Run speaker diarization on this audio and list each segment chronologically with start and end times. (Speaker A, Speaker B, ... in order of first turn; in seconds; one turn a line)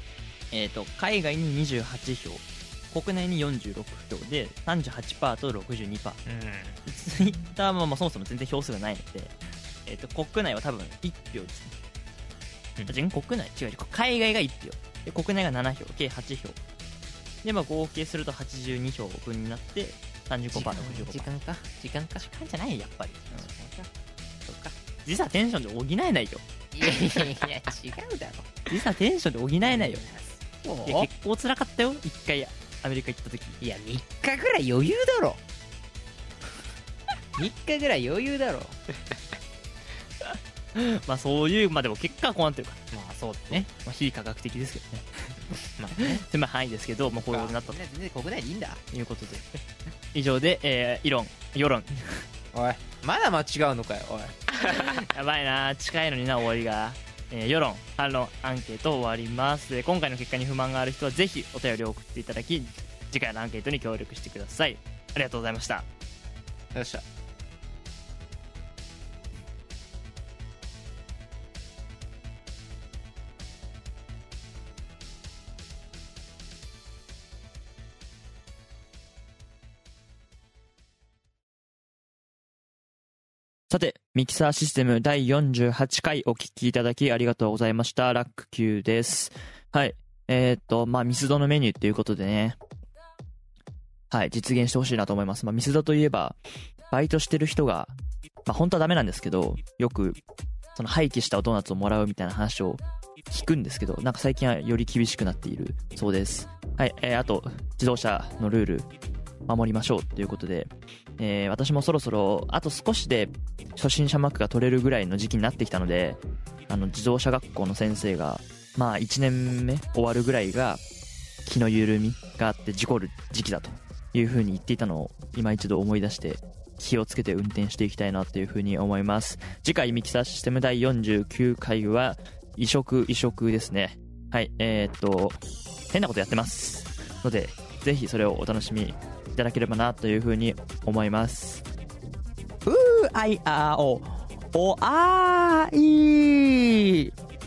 Speaker A: 0.5-6.2
Speaker B: 6.3-6.8
Speaker A: 6.9-11.8
Speaker A: 12.9-16.6
Speaker A: 17.4-21.3
Speaker B: 20.5-22.3
Speaker A: 22.2-23.5
Speaker B: 23.3-23.9
Speaker B: 24.4-24.8
Speaker A: 25.1-26.4
Speaker B: 26.7-28.5
Speaker A: 28.7-30.1
Speaker B: 29.6-31.1
Speaker A: 30.9-33.6
Speaker B: 33.6-35.4
Speaker B: 37.4-38.8
Speaker A: 40.8-42.8
Speaker B: 42.9-43.7
Speaker A: 43.6-45.4
Speaker B: 45.8-46.2
Speaker A: 46.0-47.8
Speaker B: 47.3-48.8
Speaker A: 48.9-49.4
Speaker A: 50.1-52.2
Speaker B: 52.5-54.9
Speaker A: 54.9-65.9
Speaker B: 66.7-67.0
Speaker A: 83.7-92.6
Speaker A: 94.1-96.4
Speaker A: 96.9-97.9
Speaker A: 98.5-100.2
Speaker A: 100.8-108.9
Speaker A: 109.5-120.8
Speaker A: 121.5-135.4
Speaker A: 135.9-141.7
Speaker A: 142.7-147.1